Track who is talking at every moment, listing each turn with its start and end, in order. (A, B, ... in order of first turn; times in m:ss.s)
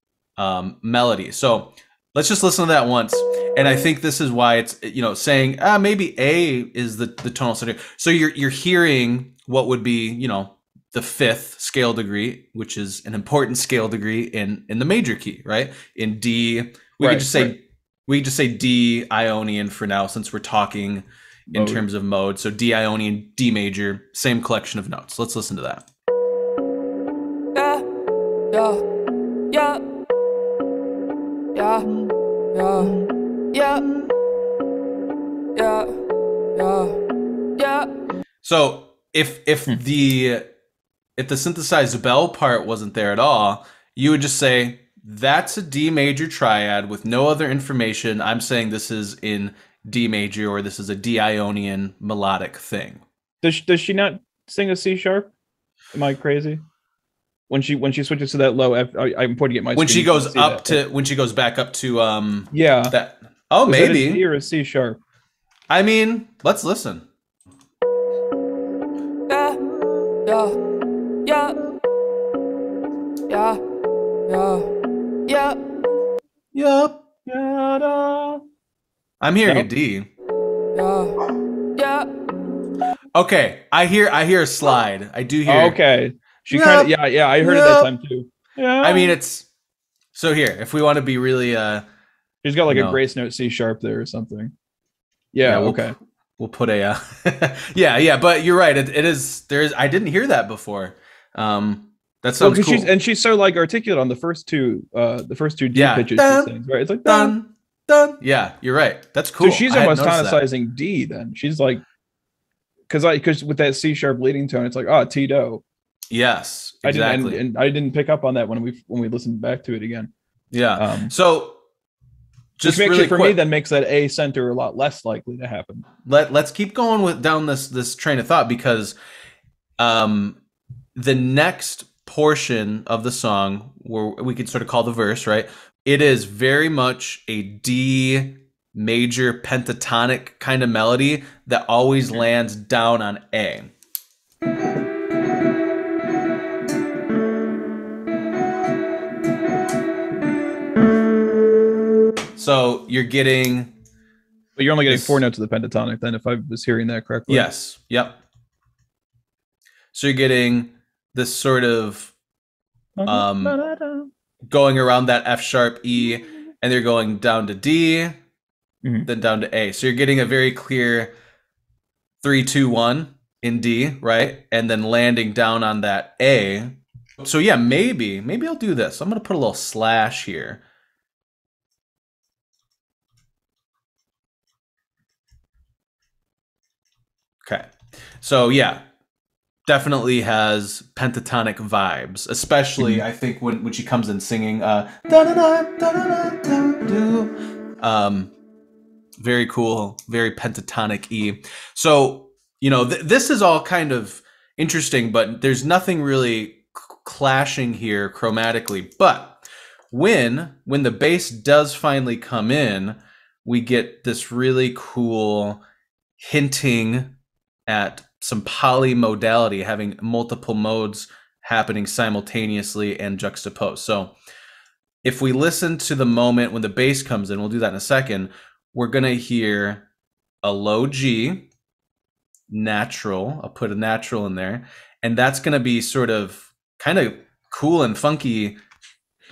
0:00.4-0:25.8 A
0:17.0-0:17.5 B
0:21.5-0:21.8 B
0:27.5-0:27.8 C
0:28.5-0:28.8 C
0:29.5-0:29.8 C
0:31.5-0:31.9 C
0:31.8-0:32.1 A
0:32.5-0:33.0 C
0:32.8-0:33.1 A
0:33.5-0:33.9 C
0:33.8-0:34.1 A
0:35.5-0:36.0 C
0:36.5-0:37.0 C
0:37.6-0:37.9 C
0:38.4-0:40.5 A
0:41.2-0:53.0 A
0:53.4-0:55.3 B
0:55.9-0:56.6 B
0:57.5-1:00.8 B
0:59.8-1:04.2 A
1:02.5-1:02.9 B
1:03.6-1:05.0 B
1:05.7-1:07.0 A
1:09.3-1:09.6 C
1:09.8-1:10.1 A
1:10.2-1:10.6 C
1:11.2-1:11.6 C
1:13.3-1:13.6 C
1:14.3-1:14.7 C
1:15.3-1:15.6 C
1:16.5-1:17.0 A
1:17.3-1:18.4 B
1:19.2-1:20.1 A
1:20.7-1:21.2 C
1:21.8-1:22.1 C
1:23.1-1:25.8 A
1:25.4-1:29.2 B
1:26.5-1:27.9 A
1:28.8-1:29.5 A
1:30.1-1:31.8 A
1:32.4-1:34.5 B
1:32.7-1:33.0 A
1:35.3-1:36.0 B
1:35.4-1:42.9 A
1:42.4-1:47.3 B
1:45.7-1:46.5 A
1:47.0-1:50.4 A
1:49.4-1:51.8 B
1:52.9-1:55.6 B
1:56.1-1:57.4 A
1:56.8-2:00.1 B
2:00.5-2:01.6 A
2:00.8-2:01.1 B
2:02.6-2:03.4 A
2:02.6-2:05.8 B
2:06.0-2:09.0 A
2:09.8-2:10.4 A
2:10.9-2:23.7 A
2:32.4-2:33.7 A
2:34.6-2:37.5 B
2:34.8-2:35.2 A
2:37.3-2:38.2 A
2:39.9-2:42.1 A
2:43.0-2:44.1 B
2:43.0-2:43.6 A
2:44.5-2:48.2 A
2:49.0-2:51.1 A
2:52.2-3:00.6 A
3:07.4-3:08.8 A
3:09.6-3:18.3 A
3:12.8-3:13.0 B
3:19.2-3:35.6 A
3:36.2-3:37.1 A
3:37.7-3:44.1 A
3:45.0-3:49.8 A
3:50.4-3:51.5 A
3:52.5-3:58.6 A